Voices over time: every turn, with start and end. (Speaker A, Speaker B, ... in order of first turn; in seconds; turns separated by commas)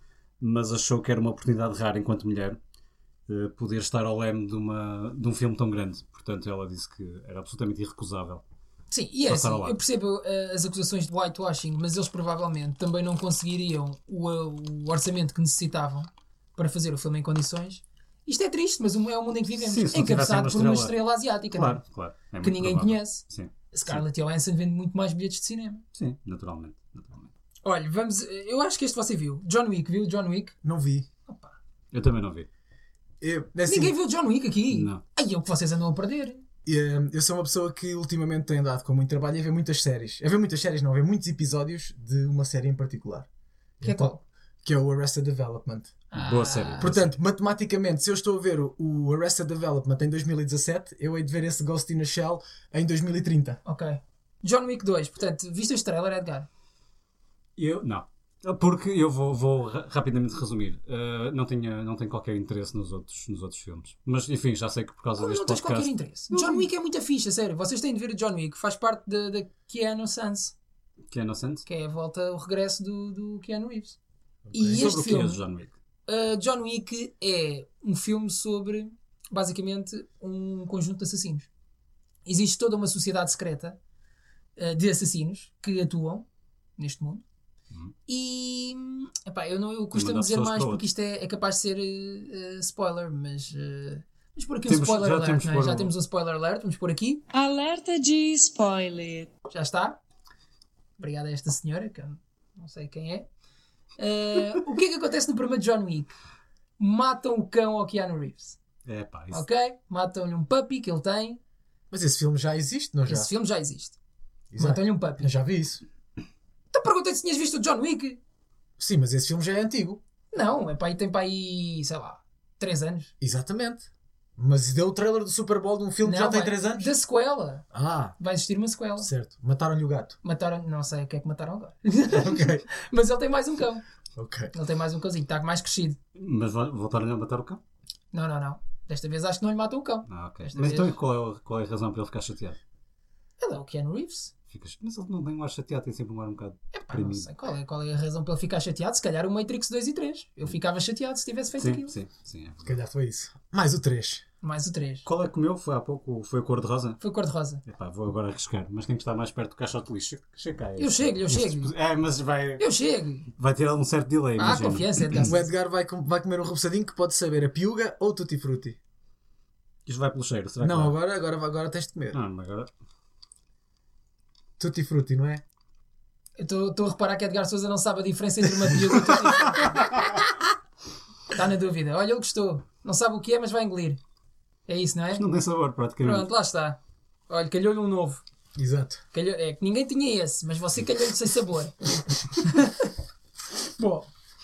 Speaker A: 0.4-2.6, Speaker A: 3.3-8.4, Speaker B: 8.9-21.8, Speaker A: 9.3-9.8, Speaker A: 19.6-21.0, Speaker A: 21.5-24.0, Speaker B: 22.4-25.8, Speaker A: 26.0-27.3, Speaker B: 27.6-30.6, Speaker C: 30.6-31.1, Speaker B: 31.3-31.5, Speaker A: 31.9-32.5, Speaker C: 33.2-34.0, Speaker B: 33.7-36.5, Speaker A: 34.7-35.0, Speaker C: 36.6-43.3, Speaker C: 43.8-44.1, Speaker B: 43.8-44.2, Speaker C: 44.6-46.0, Speaker B: 46.1-46.9, Speaker A: 46.1-47.2, Speaker C: 46.8-53.6, Speaker B: 53.6-56.5, Speaker A: 57.6-66.7, Speaker B: 65.2-70.5, Speaker A: 71.1-71.7, Speaker B: 71.7-74.0, Speaker C: 74.5-74.9, Speaker B: 74.5-75.4, Speaker A: 74.8-75.8, Speaker B: 76.1-81.5, Speaker B: 82.2-83.8, Speaker B: 84.6-86.3, Speaker B: 86.8-87.2, Speaker B: 88.1-97.3, Speaker A: 89.9-90.8, Speaker A: 94.7-95.9, Speaker D: 97.3-99.3, Speaker B: 99.5-100.0, Speaker B: 101.0-103.3, Speaker B: 104.0-106.2, Speaker B: 106.8-108.6, Speaker A: 108.8-109.5, Speaker B: 109.3-111.4, Speaker C: 111.9-113.3, Speaker B: 113.1-114.0, Speaker C: 114.5-115.8, Speaker B: 114.6-115.3, Speaker B: 116.7-118.2, Speaker C: 118.8-120.0, Speaker B: 120.3-123.1, Speaker C: 123.2-126.9, Speaker B: 126.0-127.7, Speaker C: 127.7-128.2, Speaker B: 128.2-129.1, Speaker C: 129.0-130.2, Speaker B: 130.2-133.8, Speaker C: 132.1-132.7, Speaker C: 134.2-134.5, Speaker B: 134.5-136.0, Speaker A: 136.2-137.6, Speaker B: 138.1-141.0, Speaker A: 140.1-142.6, Speaker B: 143.4-144.3, Speaker A: 144.5-147.3, Speaker B: 146.7-151.9, Speaker A: 151.6-152.8, Speaker C: 152.7-154.2, Speaker B: 154.4-155.1, Speaker A: 155.1-157.0, Speaker B: 157.0-157.6, Speaker A: 157.7-162.6, Speaker B: 160.8-161.7, Speaker B: 162.6-163.3, Speaker A: 163.4-165.3, Speaker B: 164.4-165.5, Speaker C: 165.3-168.8, Speaker A: 169.9-171.0, Speaker C: 170.6-172.2, Speaker A: 172.1-172.7, Speaker C: 174.6-175.4, Speaker B: 176.4-180.0, Speaker B: 181.3-184.0, Speaker B: 184.7-185.2, Speaker A: 185.1-186.3, Speaker B: 186.0-188.2, Speaker C: 188.6-189.0, Speaker B: 189.1-192.9, Speaker B: 193.8-194.1